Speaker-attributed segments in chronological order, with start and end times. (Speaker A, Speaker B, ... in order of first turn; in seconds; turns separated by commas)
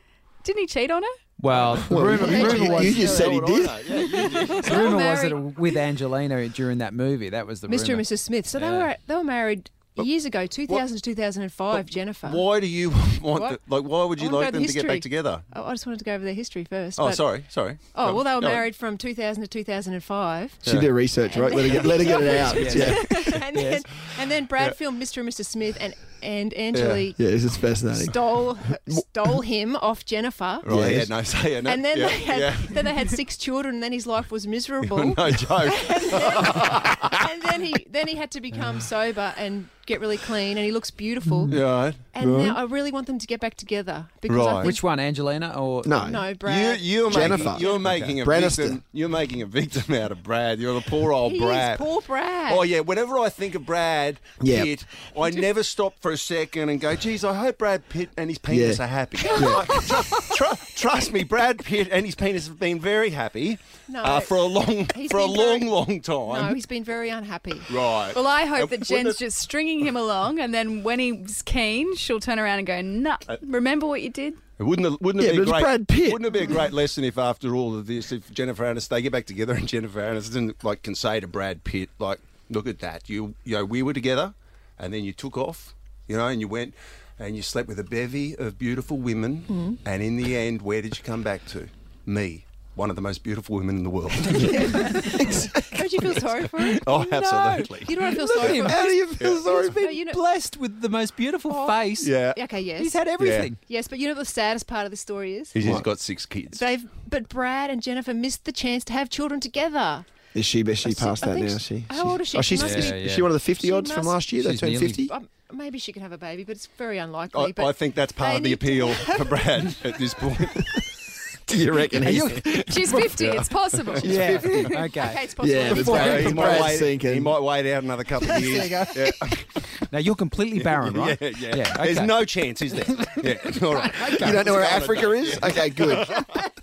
Speaker A: 0.4-1.2, Speaker B: 1.4-2.9, Speaker C: 1.7-4.1, Speaker D: 2.1-3.2, Speaker E: 2.2-4.9, Speaker A: 2.5-3.3, Speaker A: 4.0-4.7, Speaker D: 4.2-5.4, Speaker B: 4.7-8.1, Speaker D: 7.7-12.5, Speaker B: 8.6-8.9, Speaker E: 11.7-15.4, Speaker D: 13.3-13.6, Speaker D: 14.2-20.6, Speaker E: 17.0-18.7, Speaker C: 20.6-23.2, Speaker E: 20.6-20.9, Speaker D: 21.2-30.7, Speaker E: 21.6-22.7, Speaker B: 22.5-23.8, Speaker E: 26.7-27.0, Speaker C: 27.2-29.1, Speaker E: 30.6-32.8, Speaker C: 30.7-31.1, Speaker D: 31.6-44.8, Speaker E: 34.8-37.1, Speaker E: 41.5-42.0, Speaker C: 42.2-42.6, Speaker E: 44.3-44.8, Speaker B: 44.6-46.3, Speaker C: 45.8-46.3, Speaker D: 46.0-47.8, Speaker E: 46.4-51.8, Speaker C: 47.0-48.8, Speaker B: 47.3-48.2, Speaker D: 51.2-52.6, Speaker E: 52.5-66.6, Speaker C: 54.4-54.7, Speaker C: 58.5-59.8, Speaker D: 59.2-60.2, Speaker D: 63.9-67.7, Speaker E: 67.7-69.2, Speaker A: 68.0-74.4, Speaker E: 74.6-95.8, Speaker C: 75.2-76.6, Speaker D: 89.5-89.8, Speaker D: 94.2-100.2, Speaker E: 96.5-99.6, Speaker B: 97.1-102.1, Speaker C: 98.6-99.8, Speaker D: 101.5-103.0, Speaker E: 102.0-102.4, Speaker B: 102.8-103.6, Speaker E: 103.2-103.5, Speaker D: 103.6-105.9, Speaker E: 105.5-106.6, Speaker D: 106.5-110.1, Speaker C: 110.3-115.1, Speaker D: 110.8-114.3, Speaker B: 112.6-113.3, Speaker B: 114.4-115.1, Speaker D: 115.0-119.9, Speaker E: 117.3-120.8, Speaker C: 121.5-122.6, Speaker B: 122.0-123.0, Speaker A: 122.5-125.0, Speaker E: 122.7-124.1, Speaker C: 124.0-124.7, Speaker B: 124.1-126.6, Speaker D: 125.0-126.7, Speaker C: 125.4-127.4, Speaker E: 125.6-129.7, Speaker D: 128.3-128.9, Speaker B: 128.3-128.9, Speaker B: 129.9-132.3, Speaker E: 130.6-136.4, Speaker B: 132.9-134.4, Speaker C: 134.2-136.2